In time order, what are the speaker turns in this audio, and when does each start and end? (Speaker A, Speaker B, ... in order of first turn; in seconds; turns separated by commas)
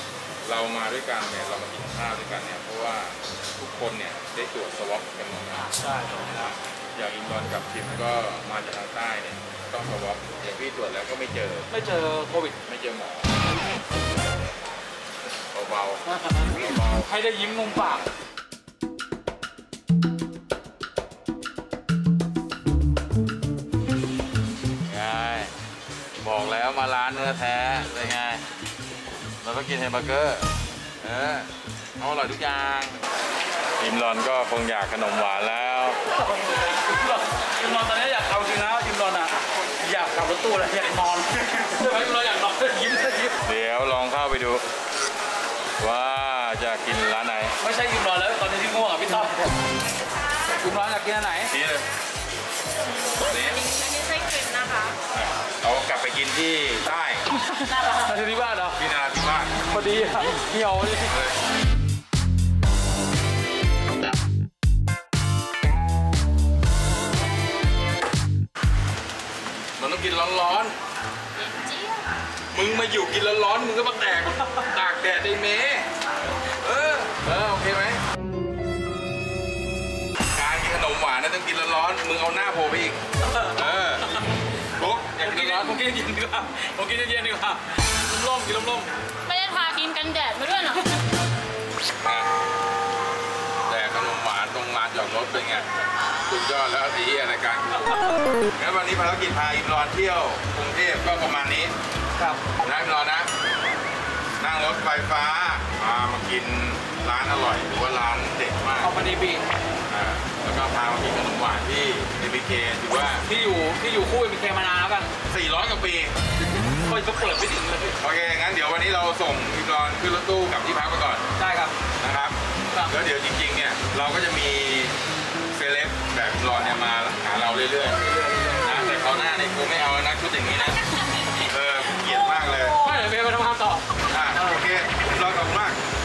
Speaker A: 0.4-5.7, Speaker B: 5.6-6.5, Speaker A: 6.9-11.7, Speaker B: 11.7-12.6, Speaker A: 12.7-13.3, Speaker A: 15.5-17.1, Speaker B: 16.1-18.1, Speaker A: 24.9-25.5, Speaker A: 26.2-28.4, Speaker A: 29.4-30.4, Speaker A: 31.0-31.5, Speaker A: 32.0-33.0, Speaker A: 33.8-36.0, Speaker B: 36.2-43.3, Speaker A: 43.5-44.6, Speaker A: 45.8-47.5, Speaker B: 47.6-49.5, Speaker B: 50.6-51.5, Speaker C: 53.0-55.0, Speaker A: 53.3-53.6, Speaker A: 55.1-57.2, Speaker B: 57.3-58.8, Speaker A: 58.8-59.5, Speaker B: 59.6-61.1, Speaker A: 61.1-61.4, Speaker A: 69.8-70.7, Speaker C: 71.3-72.0, Speaker A: 72.6-75.8, Speaker A: 76.6-78.0, Speaker A: 80.3-83.0, Speaker B: 83.2-84.2, Speaker A: 83.5-84.0, Speaker A: 84.8-85.8, Speaker B: 85.2-88.9, Speaker C: 89.2-91.0, Speaker A: 92.0-92.3, Speaker A: 93.7-97.7, Speaker A: 98.6-101.7, Speaker B: 102.2-102.4, Speaker A: 102.6-103.3, Speaker A: 104.4-108.9, Speaker B: 108.8-109.4, Speaker A: 109.9-113.2, Speaker B: 113.2-115.1, Speaker A: 115.3-116.1, Speaker B: 116.5-118.0, Speaker A: 118.0-121.2, Speaker B: 121.3-121.7, Speaker A: 122.0-122.4, Speaker A: 122.9-124.9, Speaker A: 125.5-128.0, Speaker B: 128.0-128.9, Speaker A: 128.6-132.8, Speaker B: 132.4-134.6, Speaker A: 134.1-135.8